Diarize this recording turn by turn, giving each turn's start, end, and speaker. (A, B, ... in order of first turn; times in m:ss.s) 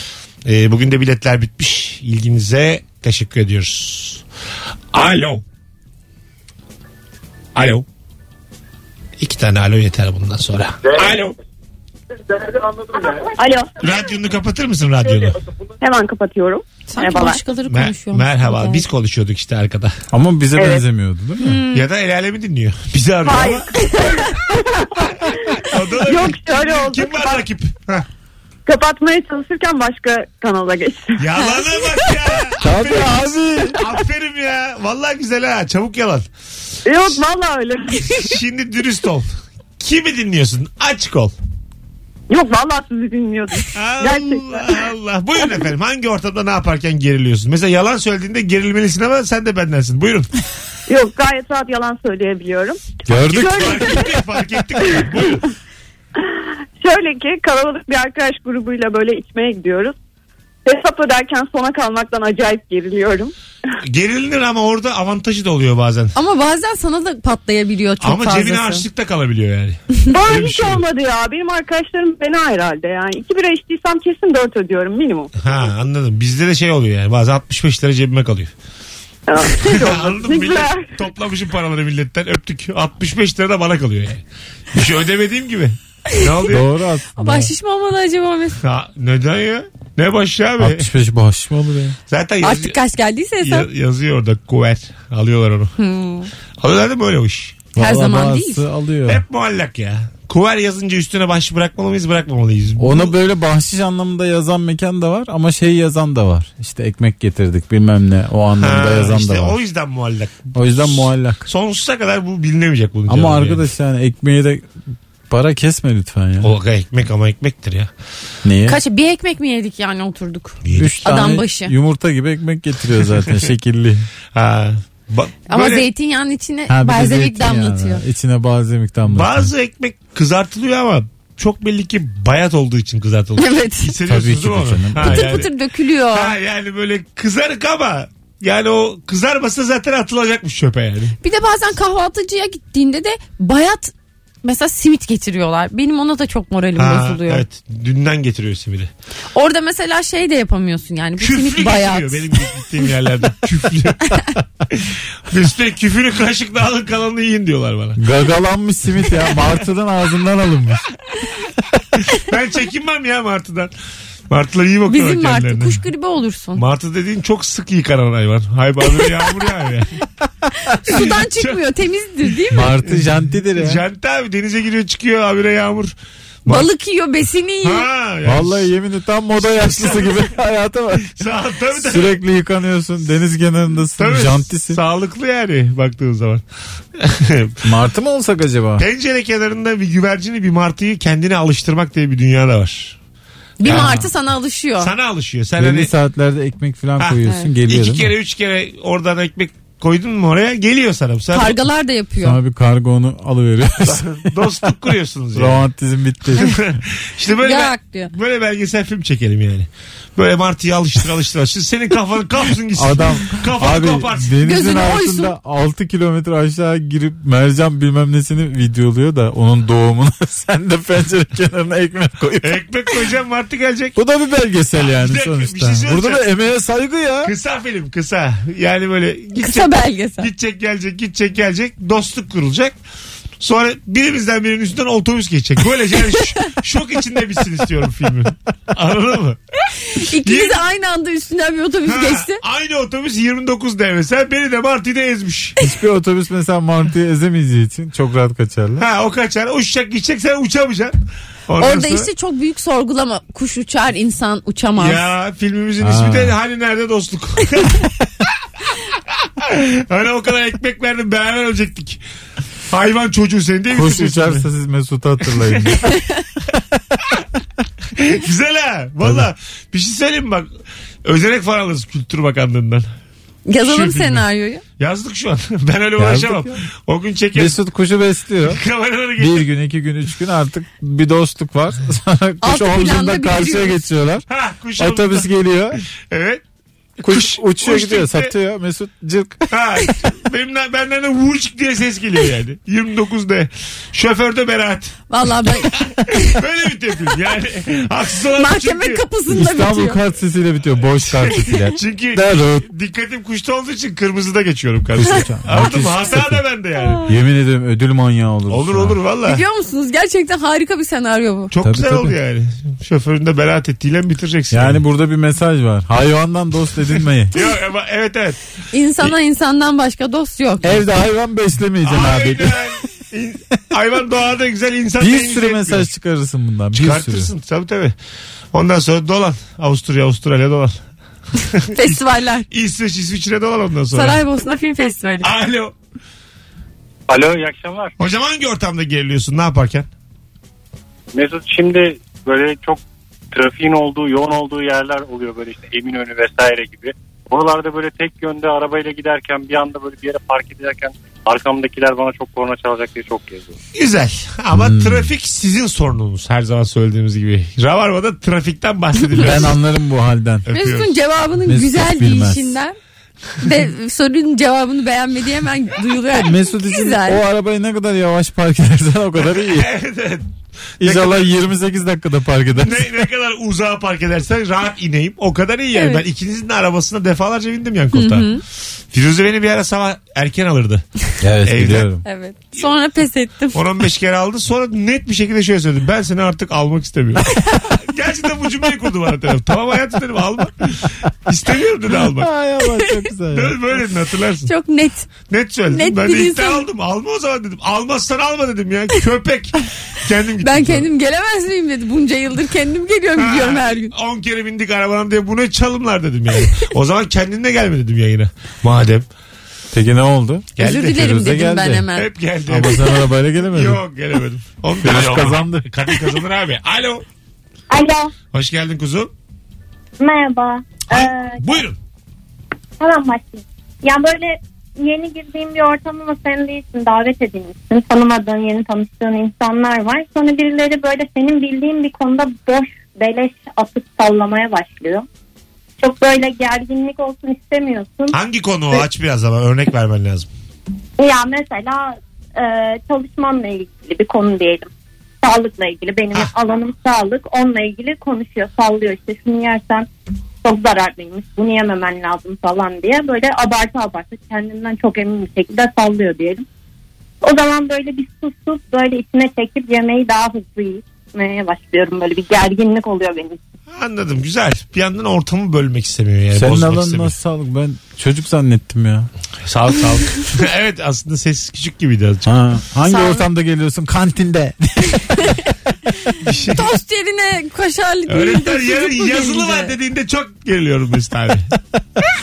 0:00.4-0:04.2 A
0:04.9-0:05.4 A
0:07.5-0:07.8 A
0:09.2-0:11.4 A
0:13.1-0:13.8 B
0:13.8-0:15.4 A
0:15.8-0:17.4 B
0:16.9-0:18.8 C
0:17.7-0:20.0 A
0:20.1-0:21.6 D
0:20.6-0:20.8 B
0:21.4-0:21.8 B
0:21.7-0:23.7 A
0:23.2-0:27.4 B
0:25.6-0:28.0 A
0:28.6-0:32.1 B
0:31.2-0:36.3 A
0:32.6-0:33.8 D
0:36.8-0:38.3 B
0:38.0-0:41.3 A
0:42.3-0:44.8 B
0:43.7-0:50.3 A
0:50.9-0:54.2 B
0:53.0-0:53.9 D
0:53.1-0:55.4 A
0:54.8-0:55.4 B
0:56.8-0:59.9 B
1:00.6-1:03.3 B
1:03.8-1:06.1 A
1:06.2-1:08.8 C
1:08.0-1:10.8 A
1:10.1-1:15.3 B
1:15.4-1:18.5 A
1:19.3-1:20.9 B
1:19.5-1:26.6 A
1:26.5-1:27.5 D
1:27.2-1:28.6 C
1:28.6-1:30.9 A
1:30.6-1:32.0 D
1:32.1-1:32.7 A
1:32.4-1:33.7 C
1:33.4-1:35.7 A
1:35.8-1:36.3 C
1:36.6-1:37.6 A
1:37.7-1:39.2 D
1:37.8-1:38.6 C
1:39.1-1:43.1 A
1:42.8-1:49.6 D
1:48.6-1:53.6 A
1:50.5-1:51.4 D
1:53.1-1:54.7 D
1:55.3-1:56.5 D
1:56.4-1:57.9 A
1:58.4-1:58.8 D
1:58.7-2:01.7 C
2:00.6-2:01.0 A
2:00.7-2:04.1 D
2:04.3-2:05.8 A
2:05.5-2:08.0 C
2:06.7-2:09.5 D
2:09.0-2:15.5 A
2:13.4-2:13.9 C
2:14.0-2:15.5 D
2:15.0-2:16.3 C
2:16.1-2:21.2 A
2:21.2-2:27.4 C
2:26.8-2:28.9 A
2:29.3-2:32.5 C
2:31.2-2:38.0 A
2:38.0-2:40.9 D
2:42.2-2:43.7 A
2:44.3-2:45.8 A
2:44.9-2:46.6 C
2:46.6-2:50.0 A
2:48.9-2:49.2 C
2:50.6-2:52.7 C
2:50.9-2:51.6 A
2:52.5-2:53.8 D
2:52.8-2:55.9 A
2:56.5-2:57.8 C
2:57.6-2:58.7 A
2:58.2-3:01.2 D
2:59.4-3:00.3 A
3:01.1-3:02.2 A
3:01.7-3:04.8 D
3:04.0-3:06.4 A
3:07.0-3:07.6 A
3:07.6-3:08.8 D
3:08.8-3:13.0 A
3:13.6-3:14.9 C
3:13.6-3:14.1 A
3:13.7-3:14.0 D
3:14.8-3:15.9 A
3:15.6-3:18.1 D
3:17.0-3:21.6 A
3:17.2-3:17.5 C
3:21.3-3:22.4 C
3:22.2-3:24.2 D
3:23.8-3:25.6 A
3:25.3-3:26.7 D
3:26.4-3:34.3 A
3:27.4-3:28.1 C
3:32.7-3:42.6 D
3:34.4-3:35.3 C
3:42.4-3:44.0 A
3:44.0-3:47.3 D
3:44.8-3:46.2 A
3:47.2-3:52.8 A
3:49.4-3:50.3 C
3:53.4-3:59.4 A
3:59.8-4:02.4 C
4:00.2-4:00.6 A
4:01.8-4:05.6 A
4:05.6-4:08.8 D
4:08.8-4:11.0 A
4:11.5-4:12.1 A
4:11.6-4:15.0 C
4:14.8-4:17.9 A
4:15.8-4:16.4 D
4:19.2-4:22.0 A
4:22.7-4:24.5 A
4:23.7-4:25.9 D
4:25.3-4:25.8 A
4:25.9-4:26.2 C
4:27.9-4:30.5 A
4:29.0-4:29.3 D
4:31.0-4:32.9 A
4:33.5-4:34.6 C
4:33.6-4:34.2 A
4:34.8-4:37.6 A
4:36.0-4:36.6 D
4:37.3-4:38.6 D
4:38.4-4:39.4 A
4:39.2-4:44.2 D
4:42.4-4:43.8 C
4:44.3-4:46.4 A
4:44.8-4:45.8 D
4:47.0-4:48.3 A
4:47.0-4:49.5 D
4:49.5-4:55.0 A
4:55.1-4:56.4 C
4:55.6-4:59.0 A
4:58.3-5:00.0 C
4:59.3-5:02.7 D
5:01.1-5:07.0 A
5:04.9-5:06.4 D
5:05.1-5:05.7 C
5:06.8-5:07.1 C
5:07.0-5:09.0 D
5:08.5-5:09.4 A
5:09.2-5:11.5 C
5:11.5-5:14.8 A
5:11.6-5:12.2 D
5:14.5-5:17.3 D
5:17.3-5:18.4 A
5:18.7-5:20.8 C
5:20.6-5:22.6 D
5:21.8-5:25.9 A
5:25.0-5:27.3 D
5:26.7-5:27.9 A
5:28.5-5:30.8 A
5:31.5-5:32.0 A
5:31.7-5:32.5 C
5:32.5-5:34.2 A
5:33.9-5:35.3 C
5:35.2-5:35.7 A
5:37.1-5:37.9 E
5:38.0-5:39.9 A
5:41.1-5:53.6 E
5:53.7-5:59.6 A
5:54.5-5:55.1 D
5:59.2-6:00.5 D
6:00.4-6:00.9 A
6:00.5-6:02.7 C
6:01.4-6:02.6 D
6:03.4-6:07.2 C
6:06.1-6:09.7 D
6:09.2-6:10.3 A
6:10.8-6:11.3 A
6:10.8-6:12.8 D
6:12.6-6:20.8 A
6:15.7-6:16.0 C
6:17.9-6:18.4 C
6:21.2-6:22.0 D
6:21.4-6:21.9 A
6:22.0-6:23.6 C
6:23.5-6:32.3 A
6:27.3-6:27.6 C
6:32.1-6:33.8 D
6:33.3-6:34.5 A
6:34.4-6:35.1 C
6:35.2-6:40.9 A
6:35.7-6:36.6 C
6:40.4-6:43.9 C
6:43.2-6:49.1 A
6:49.7-6:51.9 D
6:50.6-6:51.0 A
6:50.6-6:52.1 C
6:51.9-6:53.0 A
6:52.5-6:53.8 D
6:53.5-6:57.0 A
6:54.8-6:55.7 D
6:57.7-6:58.1 F
6:58.3-6:59.1 A
7:00.0-7:01.4 F
7:00.9-7:01.8 A
7:02.8-7:15.0 F
7:15.8-7:18.2 F
7:18.1-7:20.3 A
7:21.0-7:24.7 F
7:25.2-7:29.9 F
7:30.4-7:36.4 F
7:37.2-7:43.4 F
7:43.7-7:47.1 A
7:46.3-7:49.1 D
7:49.4-7:52.3 A
7:52.2-7:55.4 D
7:52.9-7:53.2 C
7:56.2-7:56.7 A
7:56.5-7:59.7 C
7:58.1-8:01.5 A